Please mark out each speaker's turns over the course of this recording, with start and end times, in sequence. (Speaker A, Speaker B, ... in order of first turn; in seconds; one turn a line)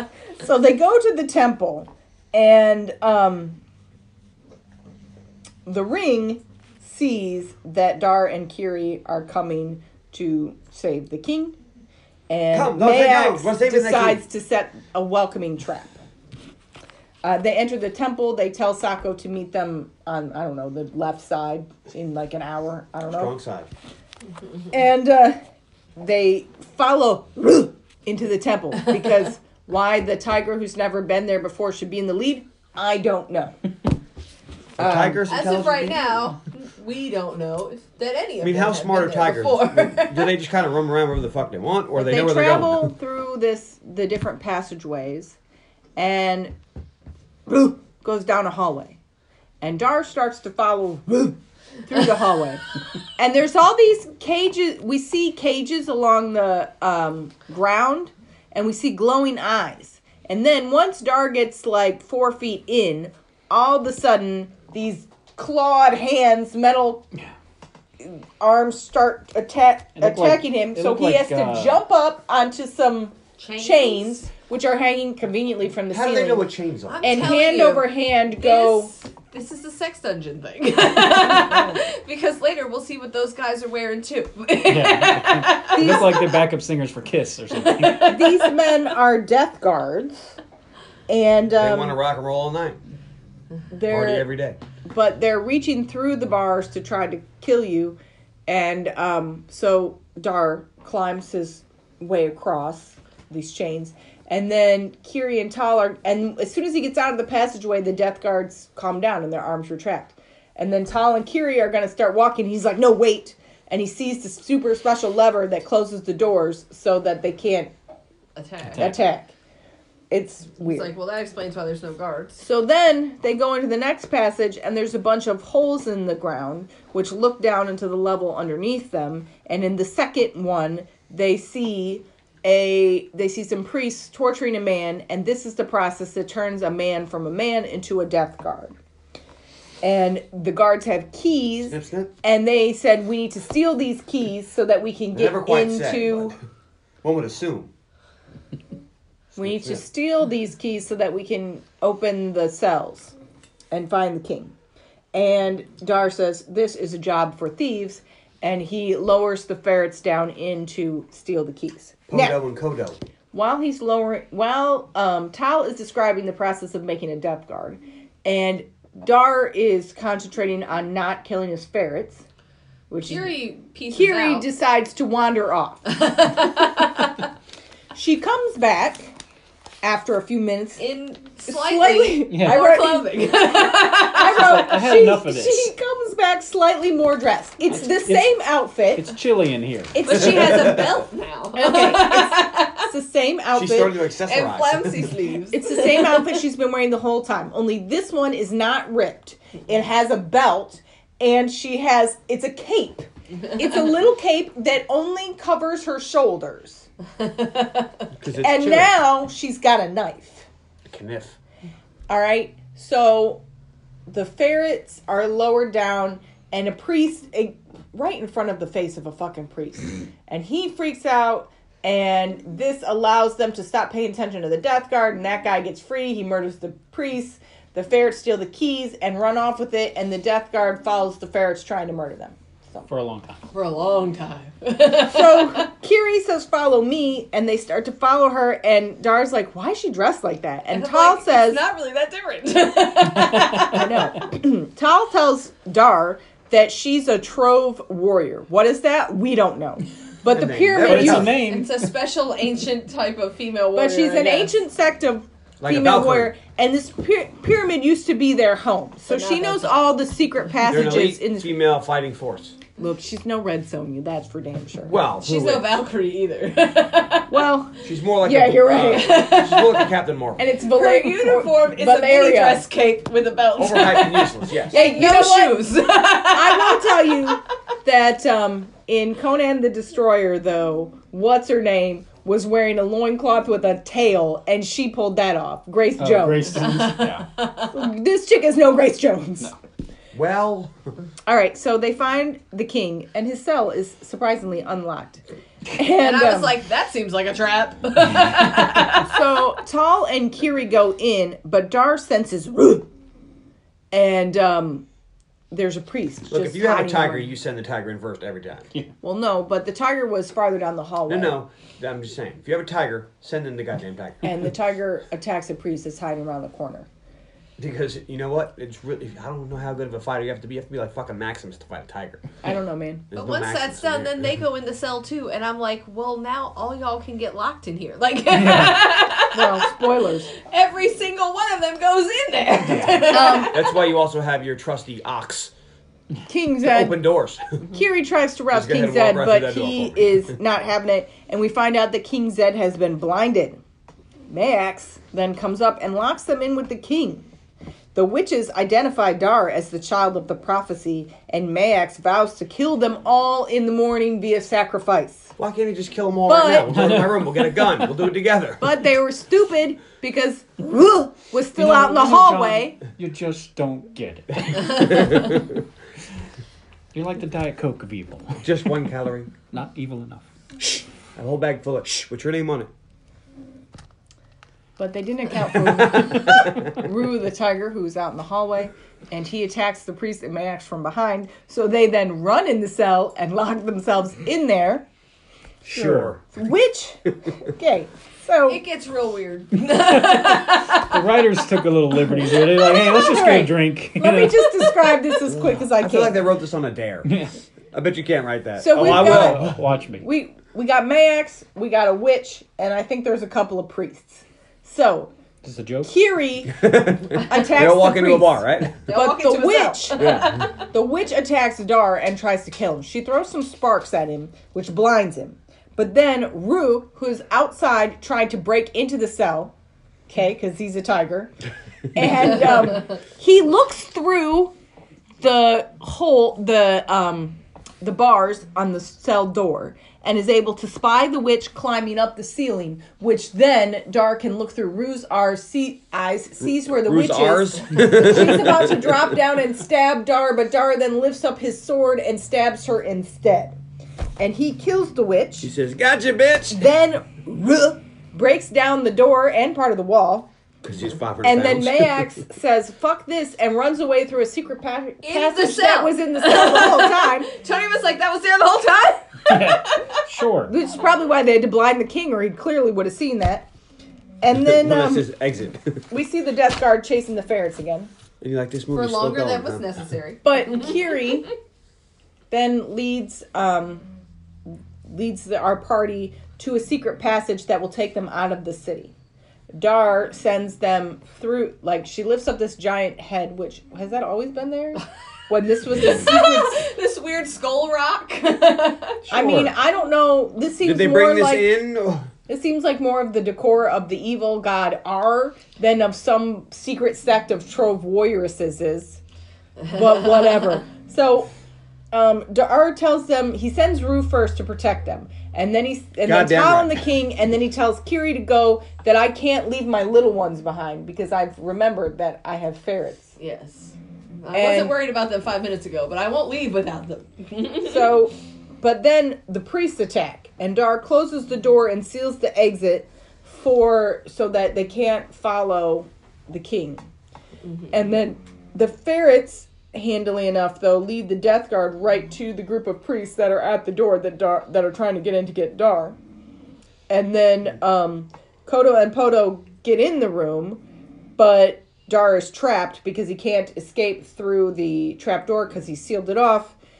Speaker A: 0.4-3.6
Speaker A: 5.7-11.6
Speaker A: 12.3-15.9
Speaker B: 12.5-14.2
Speaker A: 17.2-23.3
Speaker B: 23.1-23.7
Speaker A: 24.7-25.4
Speaker A: 26.0-33.5
Speaker A: 34.8-35.2
Speaker B: 34.8-36.1
Speaker C: 35.3-40.3
Speaker B: 38.4-42.9
Speaker A: 41.9-45.4
Speaker A: 46.0-46.5
Speaker A: 47.5-49.0
Speaker A: 49.6-52.6
Speaker A: 53.2-67.1
Speaker A: 68.0-78.9
Speaker D: 70.0-71.8
Speaker C: 73.4-74.2
Speaker B: 75.9-77.1
Speaker C: 76.9-86.3
Speaker A: 81.3-81.8
Speaker D: 84.7-88.1
Speaker A: 85.7-86.2
Speaker C: 87.5-88.5
Speaker A: 88.0-90.4
Speaker A: 91.1-92.0
Speaker B: 91.6-92.8
Speaker A: 93.7-94.3
Speaker B: 93.9-94.6
Speaker A: 94.8-117.7
Speaker C: 118.3-119.0
Speaker D: 118.7-119.0
Speaker A: 118.7-119.3
Speaker A: 120.1-120.9
Speaker C: 120.6-122.4
Speaker A: 122.4-138.7
Speaker A: 139.8-146.3
Speaker B: 141.7-142.1
Speaker B: 145.1-146.3
Speaker B: 147.0-147.7
Speaker B: 149.3-149.8
Speaker A: 149.3-153.1
Speaker A: 153.7-154.5
Speaker A: 155.1-162.4
Speaker B: 162.1-163.0
Speaker A: 163.3-172.2
Speaker A: 172.9-173.3
Speaker C: 173.1-174.4
Speaker A: 173.9-175.9
Speaker C: 175.9-177.2
Speaker A: 177.9-179.1
Speaker A: 179.8-180.8
Speaker C: 180.8-184.4
Speaker A: 181.4-189.1
Speaker D: 182.3-182.6
Speaker D: 184.2-185.7
Speaker D: 187.7-188.3
Speaker D: 188.9-190.2
Speaker A: 189.9-190.9
Speaker C: 190.0-192.8
Speaker A: 191.5-194.0
Speaker B: 193.5-195.1
Speaker C: 194.3-196.4
Speaker A: 195.5-206.9
Speaker C: 207.2-208.0
Speaker B: 208.2-208.9
Speaker A: 208.4-210.5
Speaker B: 210.8-211.4
Speaker A: 212.1-213.4
Speaker A: 214.1-232.9
Speaker D: 232.9-233.4
Speaker C: 233.5-235.6
Speaker A: 234.9-241.6
Speaker C: 240.7-244.2
Speaker A: 243.6-251.3
Speaker B: 250.2-251.4
Speaker D: 250.8-251.9
Speaker C: 251.2-254.5
Speaker A: 253.7-261.5
Speaker B: 255.6-256.3
Speaker C: 259.1-259.8
Speaker B: 260.7-262.6
Speaker A: 262.8-265.0
Speaker B: 264.9-265.8
Speaker C: 265.2-267.4
Speaker A: 267.3-269.2
Speaker B: 267.8-270.4
Speaker C: 268.8-269.9
Speaker A: 270.4-272.6
Speaker C: 270.7-277.4
Speaker B: 273.6-274.8
Speaker A: 274.7-275.7
Speaker A: 276.3-286.7
Speaker D: 286.0-287.3
Speaker C: 286.6-287.7
Speaker A: 287.7-289.5
Speaker B: 290.1-290.7
Speaker A: 291.2-295.2
Speaker A: 295.7-296.6
Speaker C: 296.0-299.2
Speaker A: 298.9-302.9
Speaker A: 303.9-304.8
Speaker A: 305.5-307.3
Speaker B: 306.3-308.7
Speaker A: 309.0-311.4
Speaker B: 311.1-314.3
Speaker A: 314.2-316.9
Speaker B: 317.6-322.2
Speaker A: 322.4-323.1
Speaker B: 323.1-324.3
Speaker C: 323.1-329.9
Speaker D: 328.3-328.8
Speaker A: 329.3-330.3
Speaker C: 330.4-333.8
Speaker D: 332.7-333.0
Speaker A: 333.1-333.6
Speaker B: 333.5-335.5
Speaker A: 336.3-337.0
Speaker B: 336.6-337.4
Speaker A: 337.6-343.6
Speaker B: 338.5-340.4
Speaker A: 344.3-347.3
Speaker A: 347.9-355.3
Speaker B: 355.4-358.6
Speaker A: 356.2-356.8
Speaker D: 356.7-357.7
Speaker A: 358.6-362.8
Speaker D: 361.6-365.4
Speaker B: 364.7-365.5
Speaker D: 366.9-368.4
Speaker B: 368.4-369.3
Speaker D: 369.5-370.2
Speaker B: 371.1-372.7
Speaker A: 374.8-384.9
Speaker B: 376.2-376.5
Speaker B: 385.6-386.2
Speaker D: 385.7-386.2
Speaker A: 386.2-388.6
Speaker C: 388.5-391.3
Speaker D: 390.8-394.6
Speaker C: 392.0-393.3
Speaker A: 392.8-396.2
Speaker B: 395.4-399.6
Speaker D: 397.1-397.3
Speaker A: 398.6-399.5
Speaker D: 398.8-400.1
Speaker A: 400.0-405.1
Speaker D: 405.4-405.9
Speaker A: 405.8-419.5
Speaker B: 406.5-408.8
Speaker C: 408.9-410.5
Speaker B: 410.0-410.4
Speaker A: 420.1-421.3
Speaker A: 421.9-424.5
Speaker A: 425.2-443.6
Speaker B: 436.4-439.1
Speaker A: 444.2-445.5
Speaker B: 445.4-446.7
Speaker A: 446.5-450.3
Speaker B: 450.6-452.1
Speaker A: 451.2-457.3
Speaker C: 455.0-460.0
Speaker D: 459.3-460.5
Speaker A: 460.5-463.5
Speaker A: 464.2-465.1
Speaker B: 464.3-465.8
Speaker A: 465.9-467.9
Speaker B: 468.2-469.8
Speaker C: 468.7-471.3
Speaker A: 470.2-471.3
Speaker A: 472.3-473.9
Speaker A: 474.5-478.9
Speaker A: 479.5-486.6
Speaker C: 485.7-489.0
Speaker B: 489.1-489.5
Speaker A: 489.1-491.5
Speaker B: 490.6-492.1
Speaker A: 492.3-499.0
Speaker A: 499.7-501.3
Speaker A: 501.9-513.1
Speaker B: 506.0-506.8
Speaker C: 513.2-517.9
Speaker A: 514.3-514.8
Speaker A: 517.6-526.9
Speaker A: 527.7-536.0
Speaker A: 536.9-540.6
Speaker A: 541.2-546.5